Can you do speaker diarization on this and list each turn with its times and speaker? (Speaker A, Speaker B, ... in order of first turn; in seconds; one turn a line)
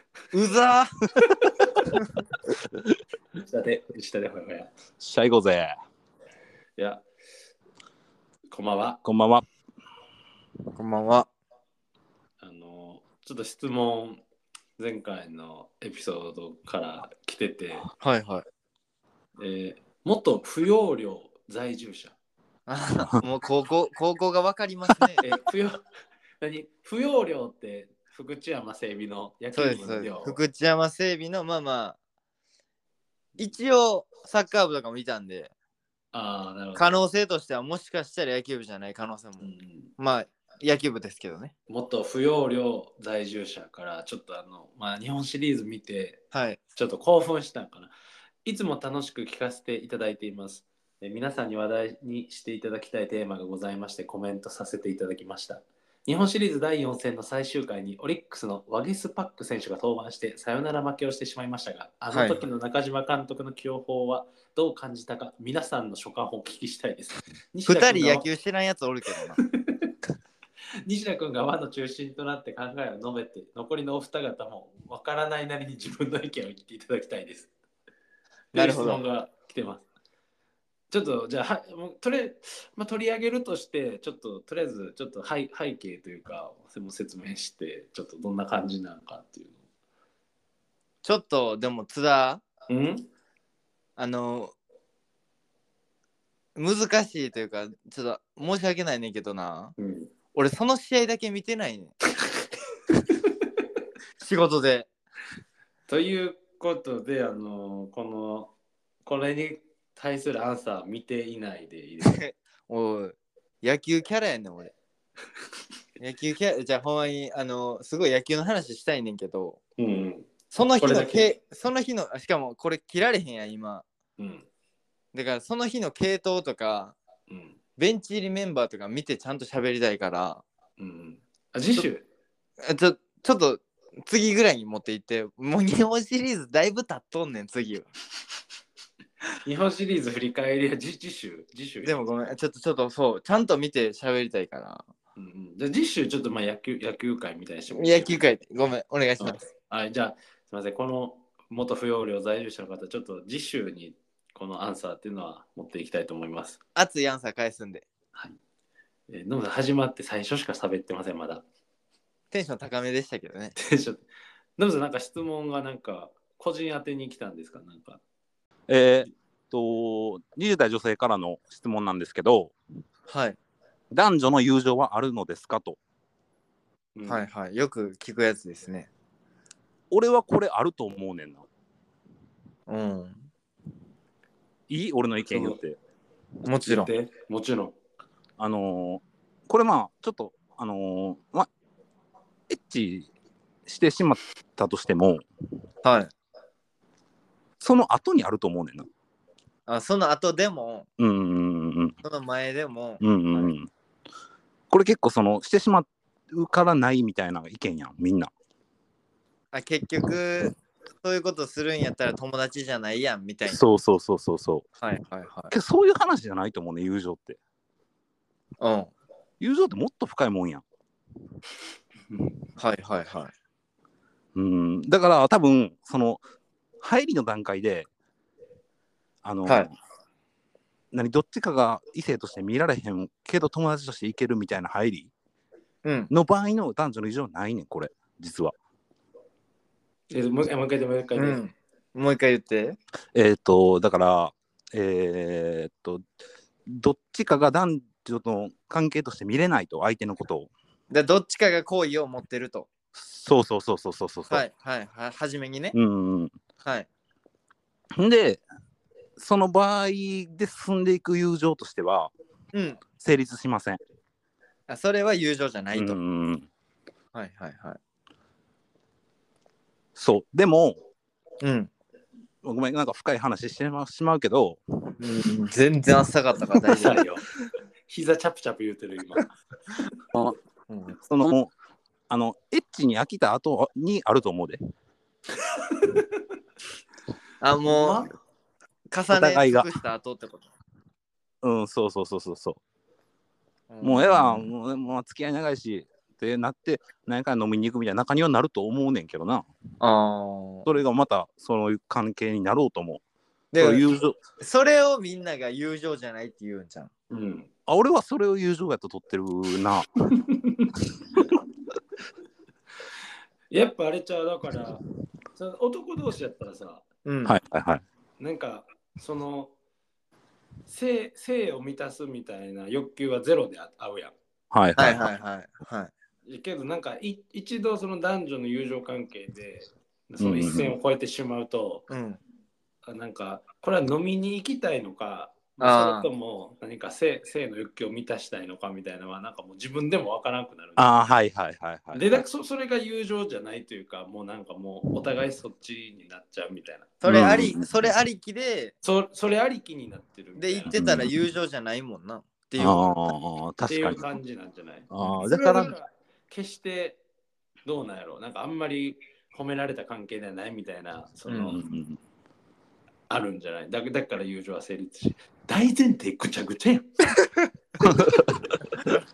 Speaker A: 0.3-0.9
Speaker B: 2.5-3.0
Speaker C: 3.3-4.7
Speaker B: 5.0-5.8
Speaker C: 6.8-7.0
Speaker C: 8.5-9.0
Speaker B: 9.0-9.4
Speaker A: 10.7-11.3
Speaker C: 12.4-14.2
Speaker C: 14.8-17.9
Speaker A: 18.0-18.4
Speaker C: 19.4-22.1
Speaker A: 22.7-25.2
Speaker C: 25.2-25.8
Speaker C: 26.4-30.4
Speaker A: 29.6-32.0
Speaker A: 33.4-35.5
Speaker C: 36.1-37.0
Speaker A: 36.8-39.5
Speaker C: 39.4-39.9
Speaker A: 40.0-41.5
Speaker C: 41.7-46.2
Speaker A: 46.3-46.6
Speaker C: 46.8-47.9
Speaker C: 48.5-68.3
Speaker A: 62.1-62.4
Speaker A: 67.7-69.4
Speaker C: 69.4-69.9
Speaker C: 70.9-77.5
Speaker C: 78.5-79.8
Speaker A: 78.5-79.0
Speaker C: 80.9-89.6
Speaker A: 91.0-92.4
Speaker C: 92.7-93.1
Speaker A: 94.0-94.5
Speaker A: 96.6-99.7
Speaker C: 99.8-100.1
Speaker A: 100.3-101.9
Speaker A: 104.2-104.9
Speaker C: 105.9-108.5
Speaker C: 109.0-112.2
Speaker A: 112.0-114.7
Speaker A: 116.0-119.6
Speaker C: 119.8-121.3
Speaker A: 120.5-123.8
Speaker C: 124.2-124.5
Speaker A: 125.1-127.0
Speaker C: 127.3-127.6
Speaker A: 127.8-130.4
Speaker C: 130.8-132.1
Speaker A: 132.6-137.9
Speaker C: 139.4-142.2
Speaker A: 141.8-144.8
Speaker C: 145.2-148.2
Speaker A: 147.7-149.4
Speaker C: 149.2-156.6
Speaker A: 156.8-157.8
Speaker C: 159.1-161.4
Speaker A: 162.3-163.6
Speaker C: 163.6-164.1
Speaker C: 164.6-168.0
Speaker B: 168.7-172.5
Speaker A: 173.1-173.4
Speaker B: 173.9-175.8
Speaker C: 176.9-177.3
Speaker A: 177.1-178.9
Speaker B: 179.9-181.5
Speaker A: 182.7-183.2
Speaker B: 184.7-185.8
Speaker C: 185.3-185.6
Speaker A: 186.4-186.9
Speaker C: 186.5-187.8
Speaker B: 188.4-191.5
Speaker B: 192.5-193.1
Speaker B: 193.7-195.2
Speaker A: 195.8-196.1
Speaker B: 197.6-198.9
Speaker A: 199.7-200.9
Speaker B: 201.0-202.0
Speaker A: 202.0-203.5
Speaker B: 203.0-203.7
Speaker B: 204.7-208.3
Speaker A: 209.5-213.6
Speaker B: 213.5-214.7
Speaker A: 214.8-215.5
Speaker B: 215.5-217.4
Speaker A: 218.6-218.9
Speaker B: 219.4-220.6
Speaker A: 222.6-223.3
Speaker B: 224.3-226.2
Speaker B: 226.8-227.9
Speaker B: 229.2-229.7
Speaker B: 230.9-235.1
Speaker A: 235.8-236.1
Speaker B: 236.1-238.6
Speaker C: 240.1-241.4
Speaker A: 241.2-242.8
Speaker B: 243.1-246.1
Speaker B: 246.7-250.5
Speaker A: 250.9-252.7
Speaker B: 252.9-254.4
Speaker A: 254.3-255.8
Speaker B: 255.7-256.3
Speaker B: 257.9-258.4
Speaker B: 259.2-262.1
Speaker A: 262.5-262.8
Speaker B: 263.0-263.8
Speaker A: 264.7-266.0
Speaker B: 265.7-266.5
Speaker A: 267.1-267.8
Speaker B: 270.0-270.8
Speaker A: 271.4-271.7
Speaker B: 272.4-274.6
Speaker A: 275.0-277.0
Speaker C: 276.7-277.2
Speaker C: 277.9-279.3
Speaker A: 280.7-281.0
Speaker B: 281.1-281.5
Speaker B: 282.1-284.6
Speaker C: 285.4-286.1
Speaker A: 287.4-288.0
Speaker C: 287.6-288.1
Speaker A: 288.9-290.5
Speaker B: 289.1-289.7
Speaker B: 291.4-292.6
Speaker A: 293.7-294.5
Speaker B: 293.8-299.5
Speaker A: 299.8-300.7
Speaker B: 300.6-303.0
Speaker A: 303.5-303.9
Speaker B: 303.6-304.2
Speaker A: 304.4-306.9
Speaker C: 307.1-307.5
Speaker B: 307.7-309.9
Speaker C: 310.2-310.7
Speaker C: 313.5-314.8
Speaker C: 315.4-316.9
Speaker A: 317.1-317.4
Speaker B: 317.2-317.8
Speaker C: 318.2-319.5
Speaker C: 320.7-324.1
Speaker B: 324.5-325.1
Speaker A: 324.8-325.9
Speaker C: 326.3-331.9
Speaker B: 330.2-330.8
Speaker A: 331.9-332.2
Speaker C: 332.9-340.9
Speaker A: 335.6-336.1
Speaker B: 340.8-342.2
Speaker C: 341.9-346.9
Speaker A: 347.0-348.7
Speaker B: 347.1-347.9
Speaker C: 348.8-350.8
Speaker A: 350.4-353.1
Speaker B: 350.7-351.1
Speaker B: 352.6-354.1
Speaker C: 353.7-357.0
Speaker B: 354.9-355.8
Speaker C: 357.7-361.6
Speaker B: 361.3-362.0
Speaker C: 363.1-367.0
Speaker B: 367.8-368.3